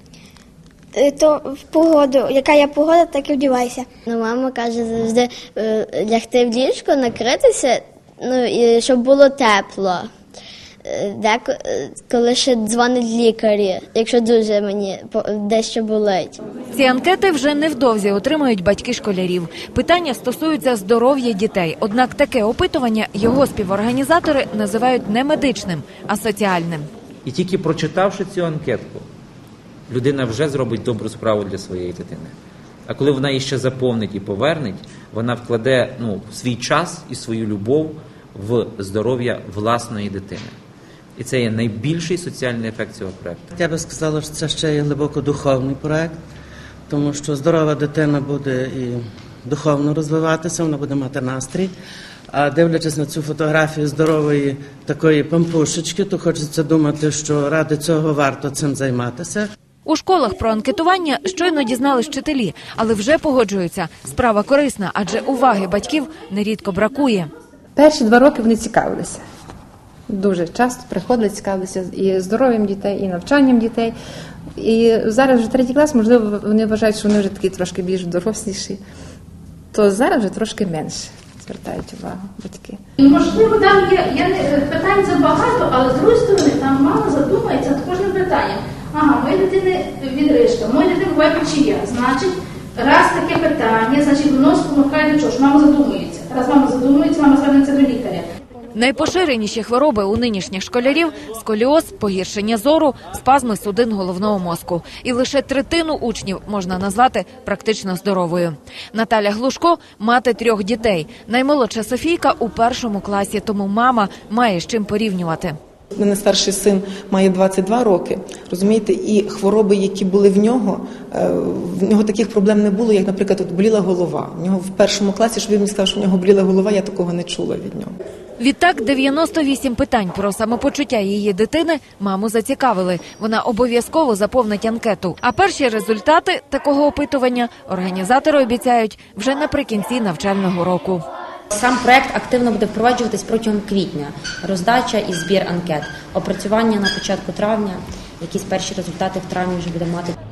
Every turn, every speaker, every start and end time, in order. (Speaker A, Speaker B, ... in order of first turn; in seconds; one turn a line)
Speaker A: 0.9-3.9
Speaker B: 4.0-10.1
Speaker B: 10.8-16.4
Speaker C: 16.7-26.9
Speaker D: 27.2-29.0
Speaker D: 29.9-32.3
Speaker D: 32.9-40.5
Speaker D: 41.2-43.4
Speaker E: 43.5-46.1
Speaker E: 46.9-51.7
Speaker E: 52.3-59.5
Speaker C: 59.8-67.3
Speaker F: 67.8-69.2
Speaker F: 70.1-73.9
Speaker F: 74.6-78.8
Speaker F: 79.7-82.8
Speaker G: 83.0-98.2
Speaker C: 98.7-115.5
Speaker H: 116.0-127.9
Speaker C: 128.4-141.0
Speaker I: 141.5-150.2